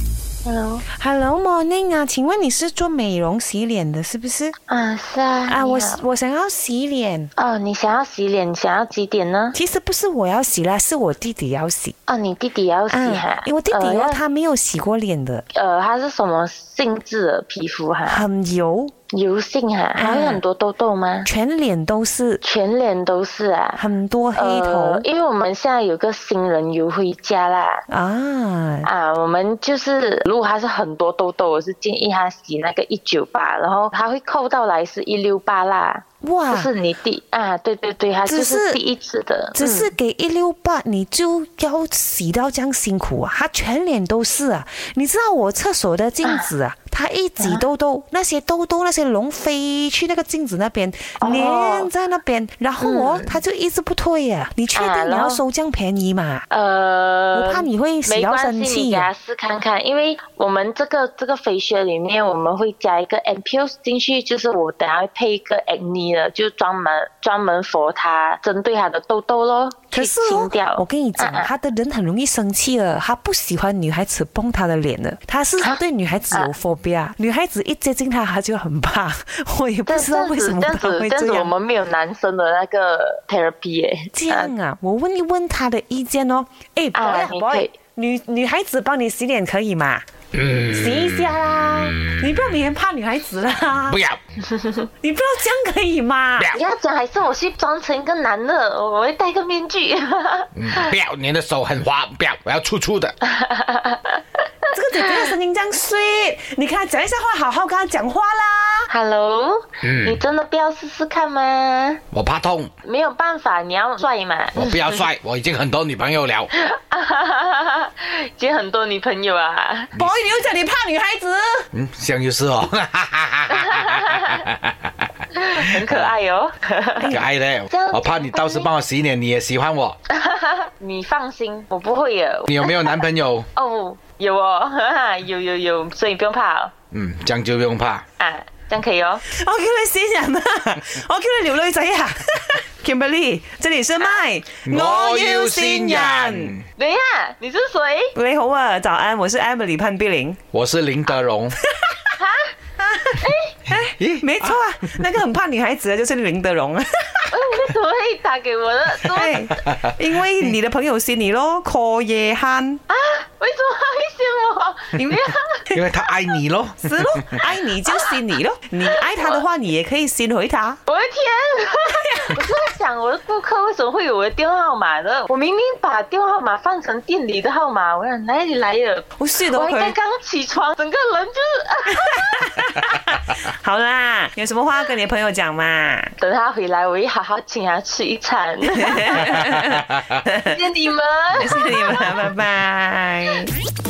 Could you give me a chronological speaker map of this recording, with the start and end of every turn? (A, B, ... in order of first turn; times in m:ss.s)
0:00.4-0:00.8 A
0:00.9-0:04.6 B
0:04.7-0:06.0 A
0:05.5-0:07.3 B
0:07.4-0:09.6 A
0:09.5-0:12.0 B
0:12.1-0:14.2 A
0:12.9-0:15.4 B
0:15.5-0:18.2 A
0:18.1-0:18.9 B
0:19.1-0:21.3 A
0:20.0-0:20.4 B
0:21.2-0:22.4 B
0:22.4-0:23.8 A
0:23.8-0:25.0 B
0:24.4-0:27.8 A
0:27.9-0:28.9 B
0:28.8-0:39.9 A
0:36.2-0:36.7 B
0:38.3-0:38.8 B
0:39.5-0:56.4 B
0:46.2-0:46.5 A
0:47.4-0:47.6 A
0:51.2-0:51.9 A
0:52.8-0:53.4 A
0:54.8-0:55.4 A
0:56.5-1:11.5 A
0:57.3-0:59.1 B
1:09.9-1:21.5 B
1:19.9-1:24.5 A
1:24.1-1:30.0 B
1:27.0-1:27.7 A
1:30.3-1:32.6 C
1:30.7-1:34.0 B
1:33.7-1:34.2 C
1:34.5-1:34.8 A
1:35.0-1:36.5 B
1:36.5-1:40.9 A
1:40.6-1:43.2 C
1:43.2-1:44.2 A
1:44.7-1:48.9 B
1:48.9-1:52.0 A
1:49.8-1:50.2 C
1:52.1-1:52.7 C
1:52.8-1:55.0 A
1:54.5-1:56.5 C
1:56.6-1:59.9 A
2:00.0-2:01.7 B
2:01.7-2:04.9 C
2:03.5-2:04.4 A
2:05.4-2:07.2 A
2:07.1-2:10.0 C
2:07.7-2:08.7 A
2:10.1-2:13.0 A
2:12.5-2:13.5 C
2:13.6-2:16.7 A
2:16.9-2:18.0 C
2:18.2-2:19.2 A
2:19.3-2:26.6 B
2:24.6-2:26.6 C
2:26.8-2:28.1 A
2:28.2-2:30.4 B
2:30.5-2:31.6 C
2:31.6-2:32.1 B
2:32.2-2:32.5 A
2:32.8-2:37.4 B
2:33.2-2:33.6 A
2:33.8-2:34.6 C
2:37.3-2:39.5 A
2:39.0-2:42.8 B
2:42.9-2:46.1 A
2:45.7-2:47.5 C
2:46.8-2:50.8 B
2:48.9-2:49.4 A
2:50.9-3:02.4 A
2:59.2-3:00.0 B
3:02.0-3:06.1 B
3:06.2-3:09.5 A
3:08.8-3:10.5 B
3:10.4-3:12.2 A
3:11.3-3:13.5 B